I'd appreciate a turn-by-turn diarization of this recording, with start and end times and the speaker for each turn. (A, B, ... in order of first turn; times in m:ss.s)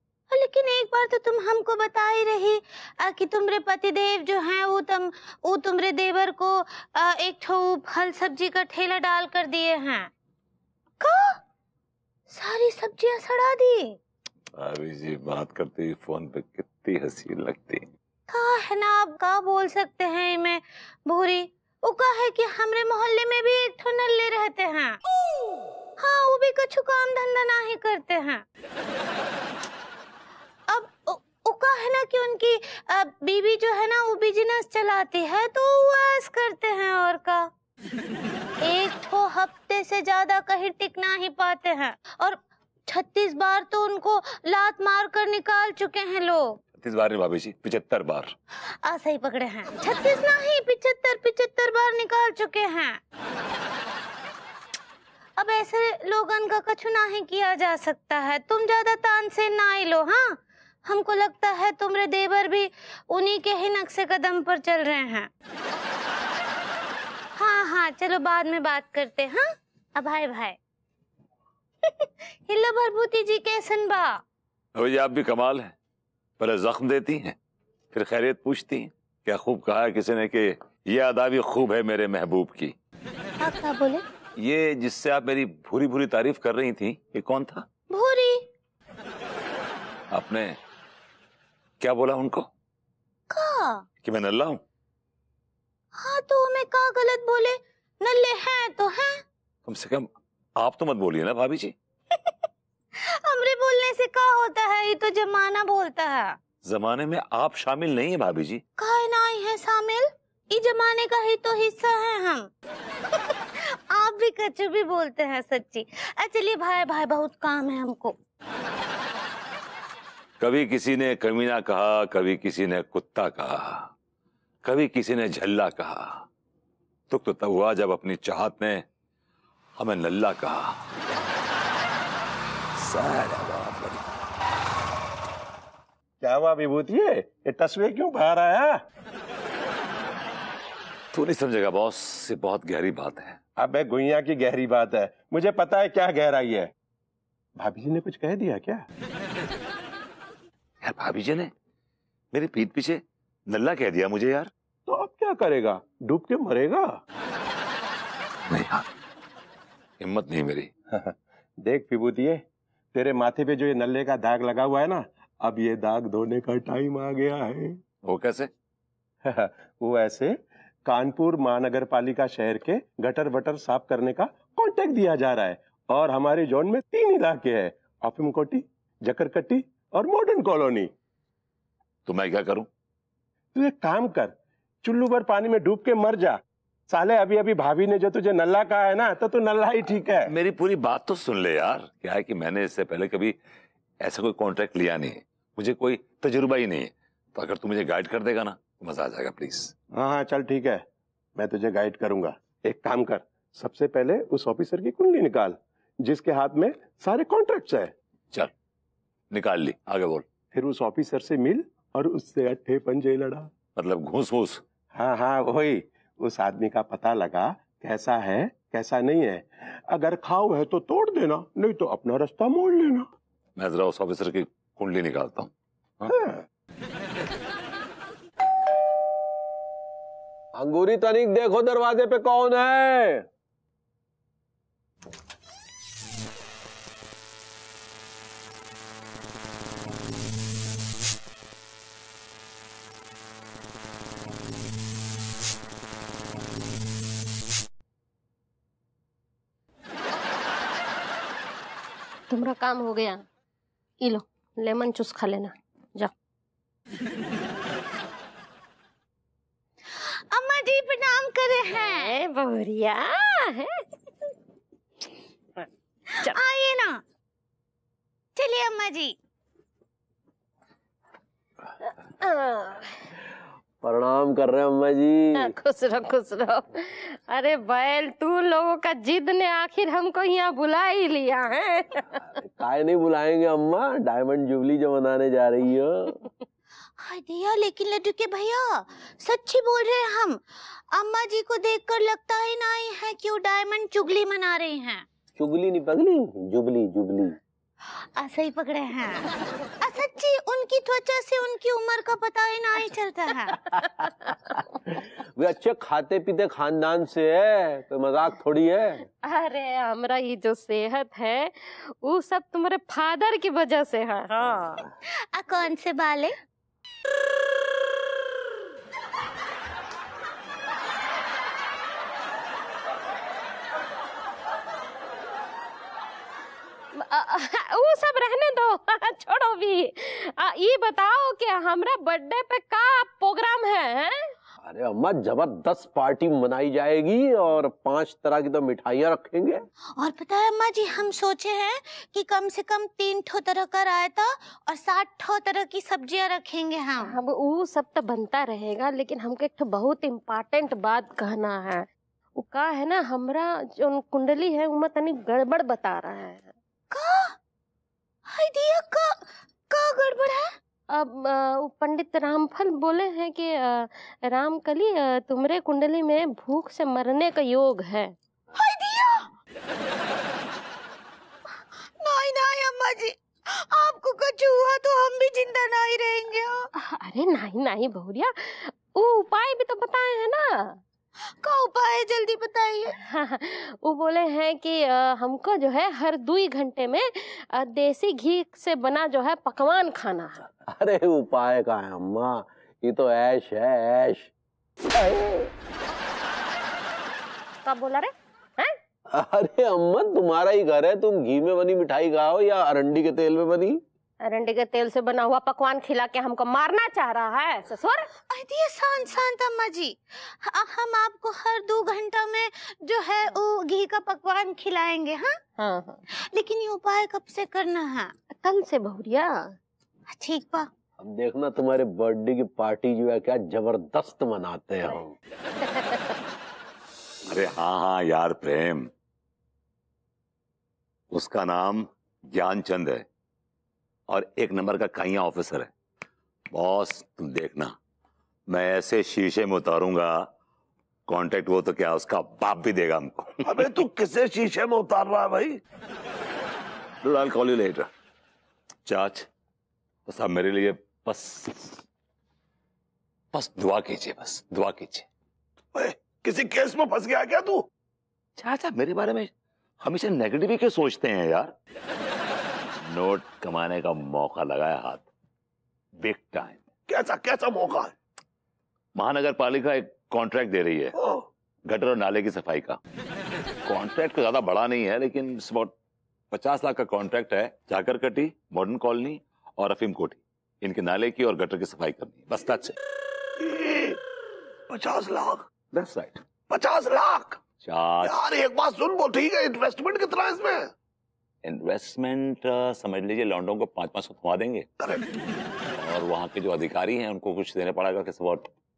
0:00.3-0:10.1 A
0:11.0-0:11.4 A
0:12.3-0:13.9 A
0:14.6-0:17.8 B
0:18.3-0:24.9 A
0:26.0-0:28.4 A
0:30.7-0:37.4 A
0:38.6-0:42.4 A
0:42.9-0:46.6 A
0:46.8-0:48.3 B
0:48.8-0:53.0 A
0:55.4-1:00.2 A
1:00.8-1:05.3 A
1:07.4-1:09.4 A
1:10.0-1:10.6 A
1:11.9-1:14.1 A
1:14.8-1:15.7 B
1:16.4-1:17.4 B
1:17.9-1:22.7 B
1:23.4-1:24.0 A
1:24.4-1:27.6 B
1:27.9-1:28.4 A
1:30.1-1:30.6 B
1:31.8-1:32.5 B
1:33.3-1:33.8 A
1:34.0-1:34.6 B
1:36.0-1:39.2 A
1:39.6-1:41.7 B
1:43.2-1:46.3 A
1:46.6-1:48.6 B
1:48.8-1:52.5 A
1:53.9-1:58.1 A
2:00.4-2:03.9 B
2:04.6-2:06.2 B
2:07.1-2:08.8 B
2:09.8-2:10.7 B
2:12.8-2:14.0 B
2:16.2-2:18.8 C
2:21.1-2:23.4 B
2:23.6-2:26.7 C
2:27.6-2:28.8 C
2:30.8-2:31.5 B
2:32.3-2:34.5 B
2:34.9-2:36.9 C
2:38.5-2:38.8 B
2:40.0-2:40.7 B
2:40.9-2:42.4 C
2:42.9-2:47.8 C
2:48.0-2:48.5 B
2:49.2-3:00.9 C
3:02.0-3:02.7 B
3:03.5-3:10.3 C
3:10.2-3:13.4 B
3:14.0-3:19.7 B
3:19.9-3:20.8 C
3:21.4-3:27.9 C
3:29.3-3:30.3 B
3:30.5-3:33.5 C
3:33.8-3:34.6 B
3:34.9-3:43.1 C
3:43.6-3:46.1 B
3:50.6-3:53.2 D
4:12.3-4:13.2 E
4:14.0-4:16.1 E
4:20.3-4:22.2 A
4:21.7-4:23.7 E
4:26.2-4:27.0 A
4:28.4-4:29.1 A
4:31.8-4:33.0 E
4:33.8-4:35.5 D
4:35.3-4:42.3 E
4:42.3-4:46.1 D
4:47.0-4:50.4 A
4:50.9-4:55.0 A
4:55.4-4:57.4 D
4:58.2-4:59.2 A
4:59.8-5:03.6 A
5:03.8-5:04.5 E
5:05.3-5:09.0 D
5:09.1-5:14.8 E
5:15.3-5:16.3 A
5:27.0-5:34.4 E
5:34.6-5:39.6 D
5:40.0-5:47.1 A
5:47.0-5:56.5 E
5:56.9-5:57.3 A
5:58.3-5:59.1 A
5:59.7-6:00.4 A
6:00.9-6:08.2 E
6:08.6-6:09.2 A
6:12.0-6:16.6 A
6:16.8-6:20.8 E
6:21.4-6:22.9 A
6:23.0-6:30.5 E
6:30.6-6:34.3 D
6:35.0-6:35.5 D
6:37.6-6:38.8 E
6:39.1-6:43.8 D
6:44.2-6:48.1 E
6:48.3-6:55.3 A
6:55.6-6:56.0 E
6:56.3-6:58.1 A
6:58.3-6:59.5 E
7:00.1-7:00.7 A
7:01.0-7:05.1 D
7:05.6-7:06.0 E
7:07.3-7:08.9 B
7:11.1-7:13.0 B
7:14.1-7:15.7 B
7:16.5-7:17.8 B
7:18.5-7:20.3 B
7:21.1-7:23.7 B
7:23.4-7:25.6 F
7:27.0-7:27.9 B
7:28.8-7:29.3 B
7:30.1-7:31.8 B
7:33.3-7:35.1 B
7:35.7-7:37.6 F
7:38.4-7:39.3 B
7:39.8-7:41.5 B
7:42.8-7:45.1 B
7:46.0-7:46.6 B
7:46.9-7:47.9 F
7:49.0-7:50.9 B
7:51.0-7:51.2 F
7:51.7-7:52.8 B
7:53.6-7:55.7 B
7:56.3-8:02.7 B
8:03.4-8:04.0 F
8:04.7-8:05.5 F
8:05.7-8:06.2 B
8:06.5-8:07.4 F
8:07.6-8:08.3 B
8:08.0-8:10.7 F
8:11.4-8:14.7 B
8:14.8-8:15.1 F
8:15.8-8:18.4 B